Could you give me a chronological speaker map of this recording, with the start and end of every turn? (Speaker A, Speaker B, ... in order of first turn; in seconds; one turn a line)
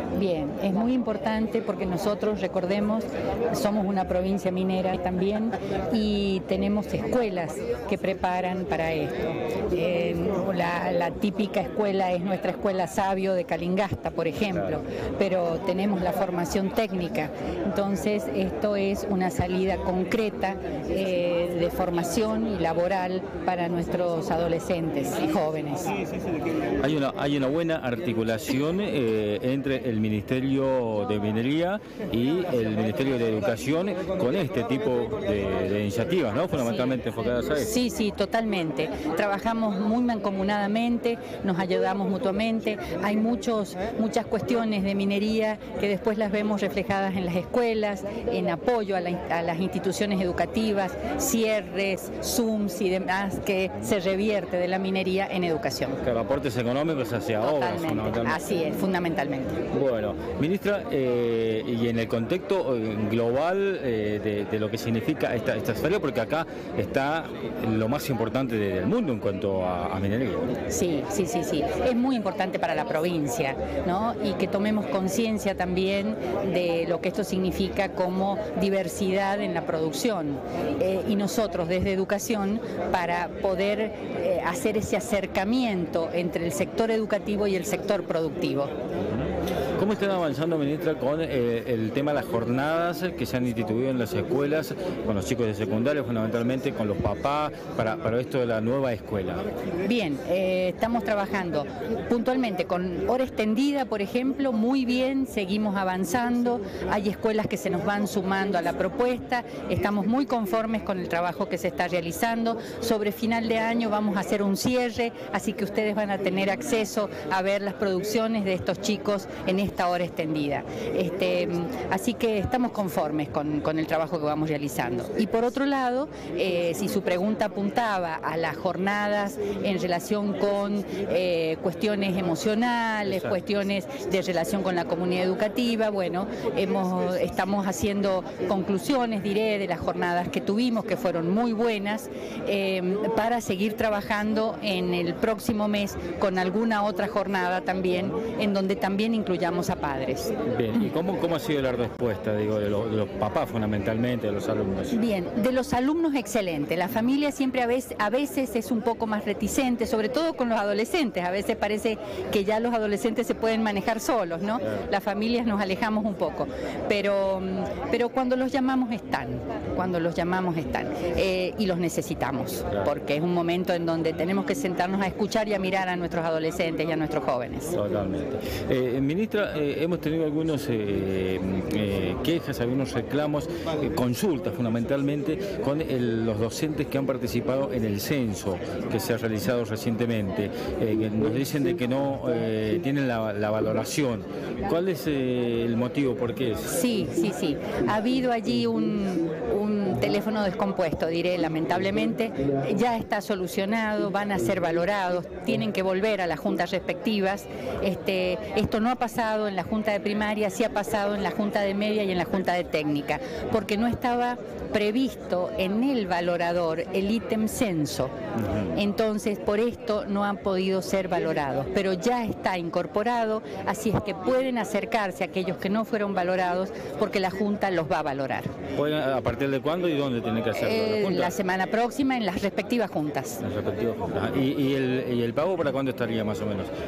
Speaker A: 0.2-9.2
Speaker A: 9.7-26.0
Speaker B: 26.8-37.7
Speaker A: 36.6-37.0
Speaker A: 37.6-56.0
Speaker B: 56.0-58.4
Speaker A: 57.4-59.6
Speaker B: 59.7-70.6
Speaker A: 70.7-88.7
Speaker B: 89.0-99.4
Speaker A: 99.8-150.3
Speaker B: 133.1-133.4
Speaker B: 150.4-155.0
Speaker A: 154.9-177.8
Speaker B: 177.7-196.8
Speaker A: 196.7-218.1
Speaker B: 218.4-218.8
Speaker A: 218.7-228.5
Speaker B: 228.8-231.3
Speaker A: 230.5-233.4
Speaker B: 233.4-236.7